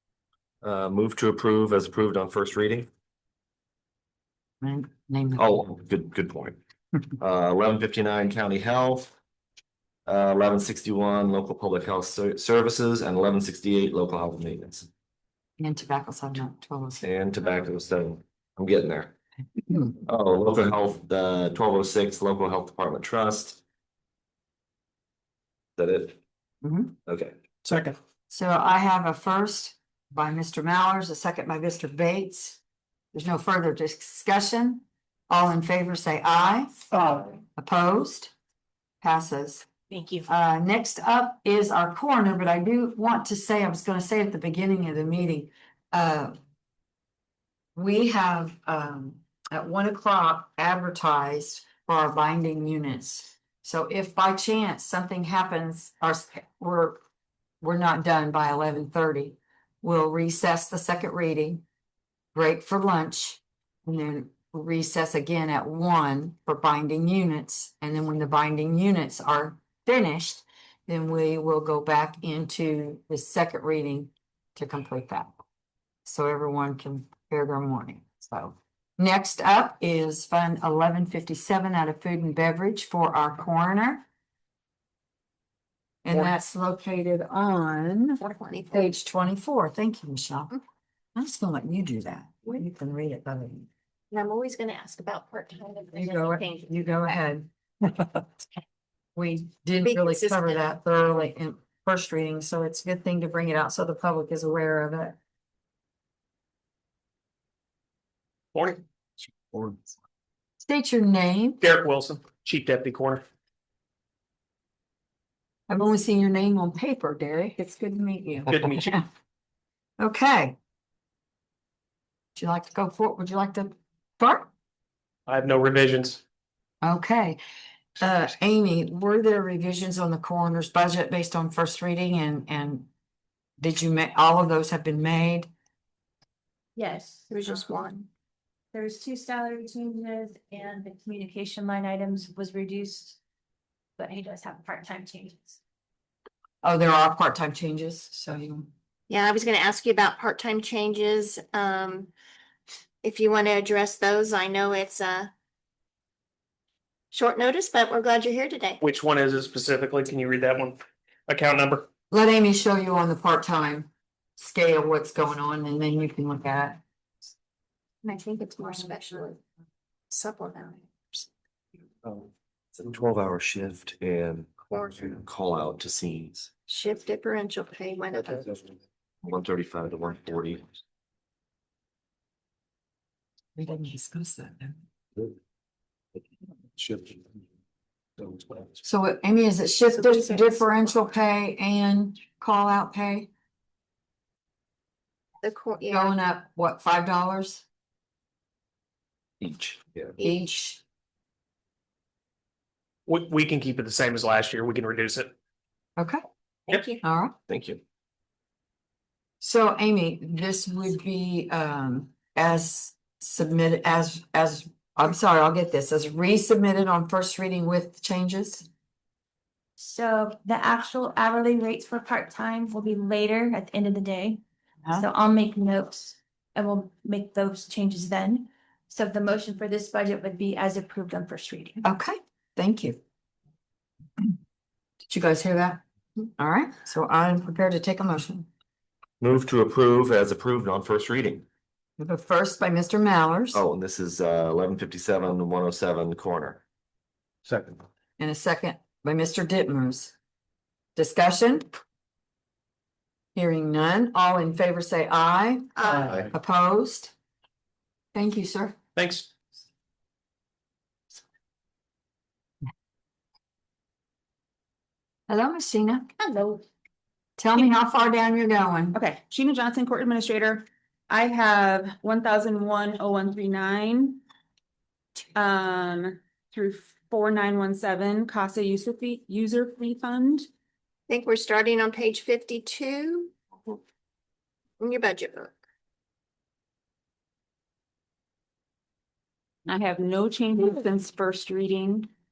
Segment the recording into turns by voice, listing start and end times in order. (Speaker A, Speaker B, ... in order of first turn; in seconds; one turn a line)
Speaker A: 0.6-2.9
Speaker B: 4.6-5.5
Speaker A: 5.4-6.6
Speaker A: 7.2-9.1
Speaker A: 10.1-14.9
Speaker B: 15.6-17.0
Speaker A: 17.0-19.1
Speaker A: 20.0-23.6
Speaker A: 25.8-26.2
Speaker B: 26.6-26.9
Speaker A: 27.1-27.4
Speaker C: 27.7-27.9
Speaker B: 28.3-32.6
Speaker B: 33.1-36.7
Speaker C: 36.9-37.2
Speaker B: 37.6-38.3
Speaker B: 39.0-39.7
Speaker B: 40.3-46.4
Speaker B: 47.8-57.0
Speaker B: 57.6-61.6
Speaker B: 62.4-75.4
Speaker B: 76.0-84.0
Speaker B: 86.0-88.2
Speaker D: 88.2-88.9
Speaker B: 88.7-90.6
Speaker B: 91.2-93.7
Speaker D: 94.1-96.7
Speaker B: 95.9-97.5
Speaker B: 99.2-105.2
Speaker D: 99.8-100.6
Speaker C: 108.5-108.8
Speaker B: 110.6-111.6
Speaker C: 111.6-113.2
Speaker B: 115.7-119.0
Speaker C: 118.5-119.0
Speaker B: 120.0-120.6
Speaker B: 122.4-124.5
Speaker C: 125.3-126.2
Speaker B: 126.8-127.4
Speaker B: 128.0-132.9
Speaker B: 133.6-135.5
Speaker E: 136.8-137.6
Speaker D: 137.3-138.1
Speaker E: 138.7-143.2
Speaker E: 144.0-145.6
Speaker B: 146.6-148.7
Speaker D: 149.1-152.1
Speaker D: 153.0-155.3
Speaker D: 157.1-158.8
Speaker C: 158.8-161.9
Speaker B: 162.1-166.8
Speaker D: 168.0-169.4
Speaker D: 170.1-171.3
Speaker A: 172.1-176.5
Speaker D: 174.7-175.1
Speaker D: 176.7-178.5
Speaker A: 179.2-180.7
Speaker B: 183.6-184.8
Speaker B: 188.8-193.3
Speaker D: 190.0-190.6
Speaker D: 195.4-196.1
Speaker B: 195.9-197.7
Speaker A: 199.4-200.1
Speaker B: 200.2-200.8
Speaker C: 203.1-205.3
Speaker D: 206.7-207.0
Speaker B: 207.0-207.3
Speaker A: 207.5-207.8
Speaker B: 209.4-218.7
Speaker E: 219.8-224.4
Speaker E: 224.9-231.8
Speaker B: 231.8-233.0
Speaker B: 235.1-235.8
Speaker B: 236.4-238.5
Speaker A: 239.2-241.5
Speaker B: 242.0-243.6
Speaker A: 243.5-246.6
Speaker B: 248.2-250.1
Speaker B: 251.0-251.7
Speaker B: 253.3-257.1
Speaker D: 255.8-256.2
Speaker B: 258.1-258.8
Speaker C: 259.0-259.3
Speaker B: 265.3-266.1
Speaker B: 267.4-269.0
Speaker F: 268.9-274.2
Speaker F: 275.2-280.5
Speaker D: 281.1-283.8
Speaker D: 284.8-285.6
Speaker F: 289.7-292.1